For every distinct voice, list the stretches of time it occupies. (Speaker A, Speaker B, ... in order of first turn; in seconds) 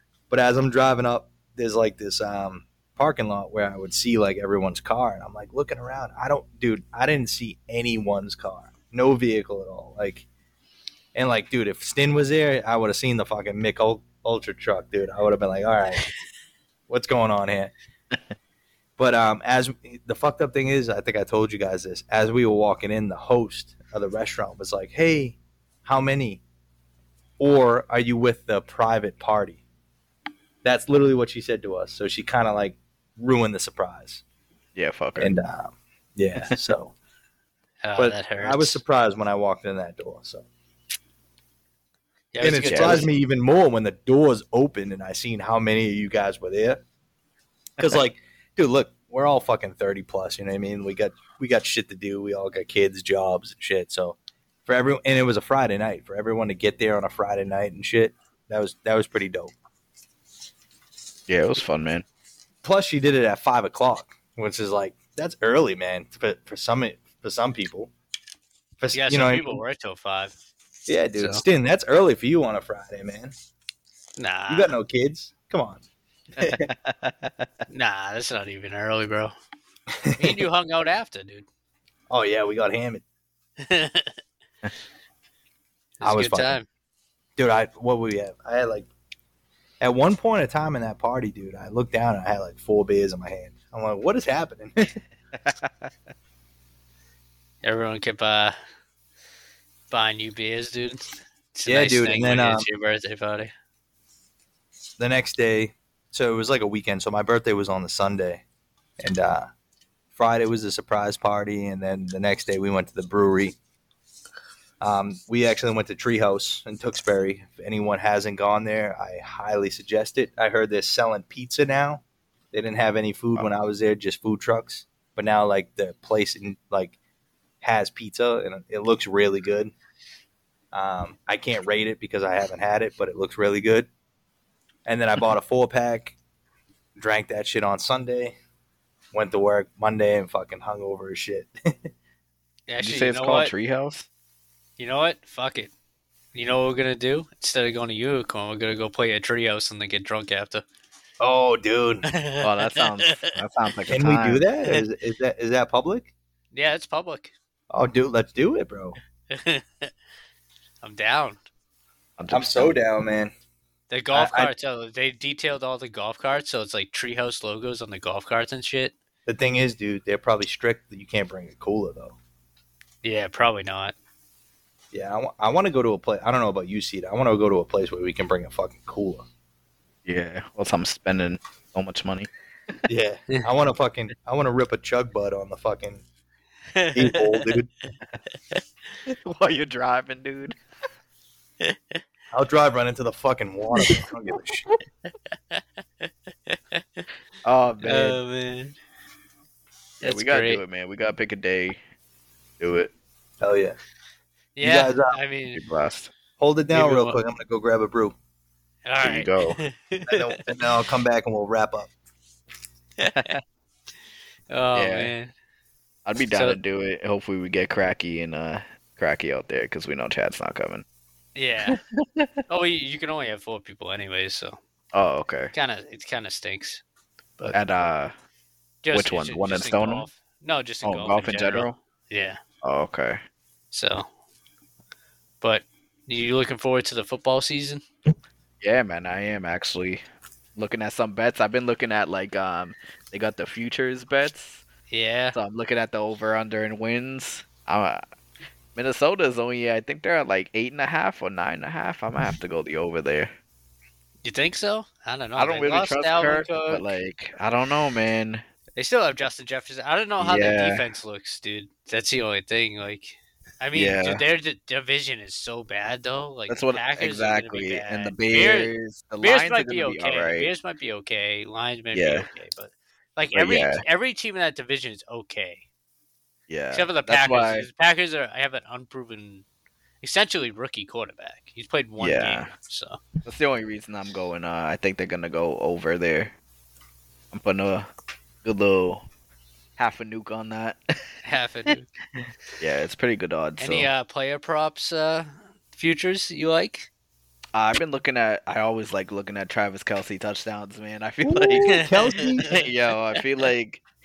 Speaker A: 0.3-10.3, 11.2-16.1, 16.9-17.7, 19.0-26.4, 27.4-29.6, 30.6-34.2, 35.2-36.9, 38.0-40.5, 42.4-46.8, 47.8-59.5, 62.6-67.9, 68.8-69.6, 70.9-73.3, 74.5-75.8, 76.4-76.7, 80.0-80.4, 82.1-83.0, 86.0-86.6, 87.4-88.9, 89.8-94.9, 101.7-102.7, 105.0-108.4, 109.0-109.5, 110.2-113.6, 114.8-127.0, 127.6-129.7, 130.7-133.9, 134.9-136.2, 137.0-138.4, 139.1-141.5, 151.2-152.1, 153.9-156.1, 157.7-159.0, 162.3-163.3, 164.1-164.5, 169.3-172.2, 174.9-179.2, 182.9-186.0, 186.9-187.7, 192.3-194.7, 203.4-203.8, 204.6-205.2, 206.4-208.2, 210.1-211.9, 301.2-302.5
Speaker B: 34.8-35.4, 42.6-43.1, 61.3-62.0, 76.4-77.5, 95.3-95.9, 142.8-144.1, 152.4-154.4, 162.2-162.8, 180.1-182.3, 189.1-190.6, 197.4-198.2, 200.0-201.8, 202.6-202.9, 205.5-206.1, 209.0-209.6, 213.1-213.4, 214.7-215.1, 216.1-220.8, 221.7-222.4, 224.9-225.5, 227.5-228.1, 228.9-230.1, 230.8-231.8, 232.6-233.2, 238.6-240.0, 240.6-244.7, 245.3-248.0, 248.8-253.3, 255.4-258.4, 260.2-260.9, 263.7-264.2, 266.5-270.5, 271.9-272.3, 273.3-273.8, 276.5-277.7, 282.0-282.5, 283.2-286.3, 287.3-287.9, 288.4-289.1, 289.8-291.1, 292.6-293.9, 297.5-301.9, 302.4-303.8
Speaker C: 37.8-38.8, 42.3-43.1, 68.9-70.3, 71.2-71.4, 74.2-74.8, 77.7-79.3, 80.2-81.5, 83.6-84.2, 86.0-86.7, 97.6-98.5, 99.9-103.5, 142.7-143.5, 144.8-145.7, 146.3-150.7, 152.1-153.3, 156.5-157.3, 159.3-159.9, 160.8-161.4, 163.9-168.9, 173.0-173.9, 186.8-187.6, 195.5-197.1, 197.8-198.8, 200.0-200.6, 204.6-205.6, 206.7-207.2, 208.8-210.4, 213.0-213.4, 214.5-215.3, 216.3-216.6, 221.3-221.8, 222.5-224.6, 225.5-226.8, 228.8-232.4, 233.7-234.1, 235.4-237.8, 244.9-245.4, 254.2-256.9, 258.8-275.6, 276.7-279.4, 280.0-283.0, 291.2-291.9, 293.6-296.9, 301.7-302.6